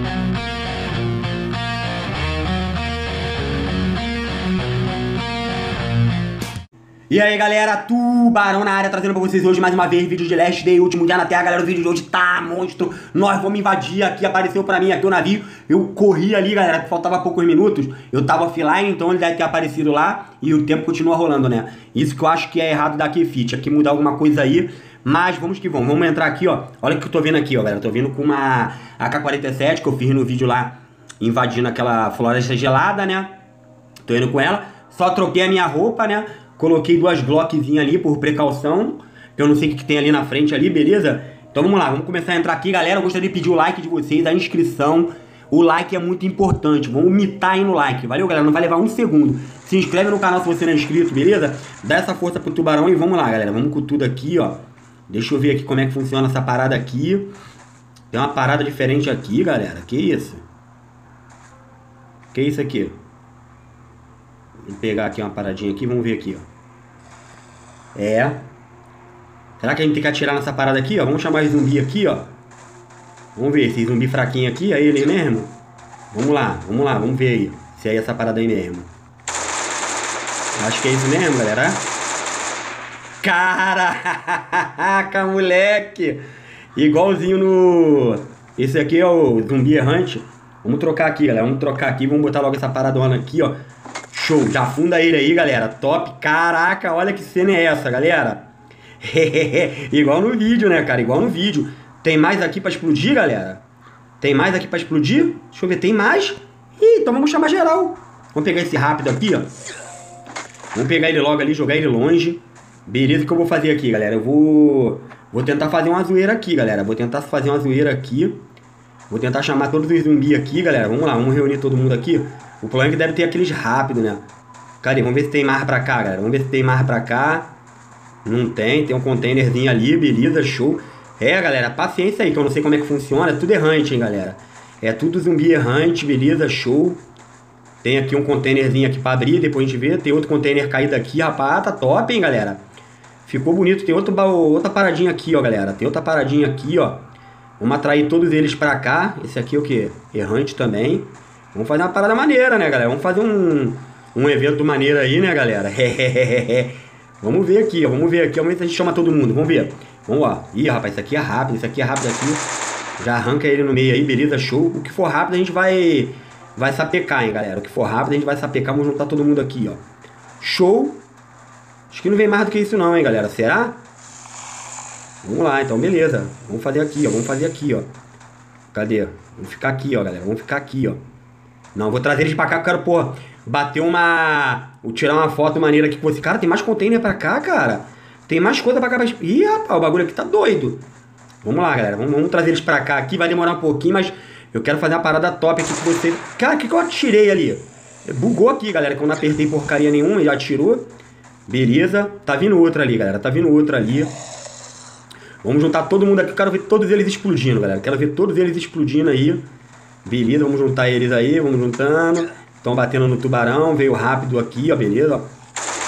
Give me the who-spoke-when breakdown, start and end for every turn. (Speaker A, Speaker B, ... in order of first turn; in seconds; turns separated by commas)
Speaker A: 7.1-33.3, Speaker A: 34.0-57.3, Speaker A: 58.1-60.4, Speaker A: 62.3-63.0, Speaker A: 64.7-66.5, Speaker A: 68.0-68.4, Speaker A: 69.6-72.3, Speaker A: 73.3-75.5, Speaker A: 76.1-78.9, Speaker A: 80.6-81.9, Speaker A: 83.2-86.2, Speaker A: 86.8-93.6, Speaker A: 94.1-103.6, Speaker A: 104.2-109.5, Speaker A: 110.7-118.4, Speaker A: 119.1-124.2, Speaker A: 124.8-127.5, Speaker A: 128.2-137.0, Speaker A: 137.8-142.6, Speaker A: 143.2-147.1, Speaker A: 147.6-162.4, Speaker A: 163.0-169.8, Speaker A: 170.4-171.0, Speaker A: 171.9-173.8, Speaker A: 175.2-177.9, Speaker A: 178.7-181.0, Speaker A: 181.7-190.8, Speaker A: 191.4-200.9, Speaker A: 201.5-204.2, Speaker A: 205.4-209.4, Speaker A: 210.0-215.3